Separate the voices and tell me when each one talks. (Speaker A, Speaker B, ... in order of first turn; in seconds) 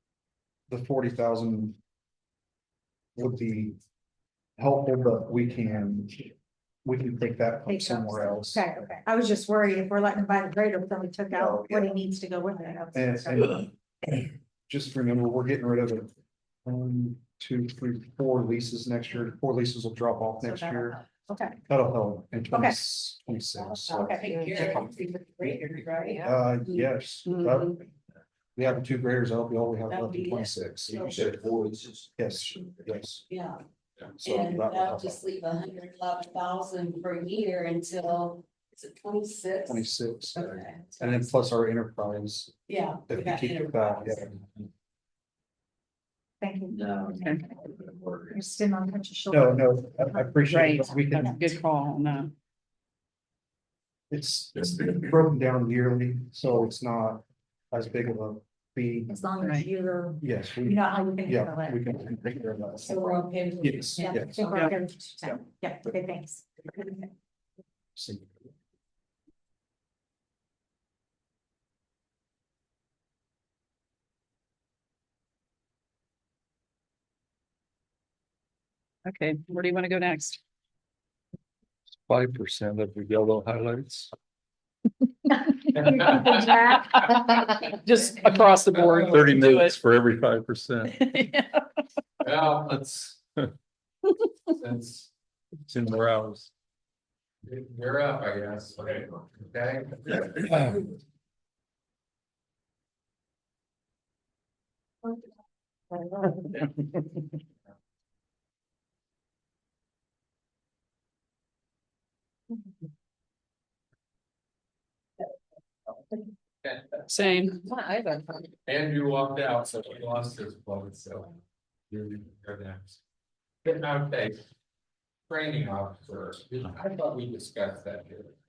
Speaker A: 0.7-1.8, 3.2-3.8, 4.6-6.3, 6.8-8.7, 11.4-11.9, 12.9-16.1, 16.6-21.0, 21.6-24.8, 26.2-27.8, 28.6-31.2, 32.2-33.2, 34.1-35.2, 39.7-42.5, 43.1-44.3, 49.3-51.4, 54.1-59.2, 60.2-64.7, 68.0-68.4
Speaker B: 7.7-13.5, 20.4-21.6, 22.5-22.8, 23.9-26.2, 46.4-51.5, 59.1-61.9, 64.0-67.0
Speaker C: 23.6-26.4, 29.9-31.4, 33.3-33.6, 34.2-41.3, 42.7-44.4, 46.7-47.2, 48.0-48.3, 62.8-64.2, 117.6-118.5
Speaker D: 24.3-24.6, 26.7-27.8, 50.5-52.3, 59.4-59.7, 79.1-80.4, 85.8-89.8, 90.9-91.6, 117.1-117.7
Speaker E: 30.9-32.1, 82.1-84.1, 89.1-90.9, 95.7-96.5
Speaker F: 85.8-86.5, 88.8-89.3, 92.2-93.2, 94.5-95.1, 97.4-100.6, 116.6-117.0, 118.7-121.4, 121.9-123.0, 123.6-124.4, 125.3-128.3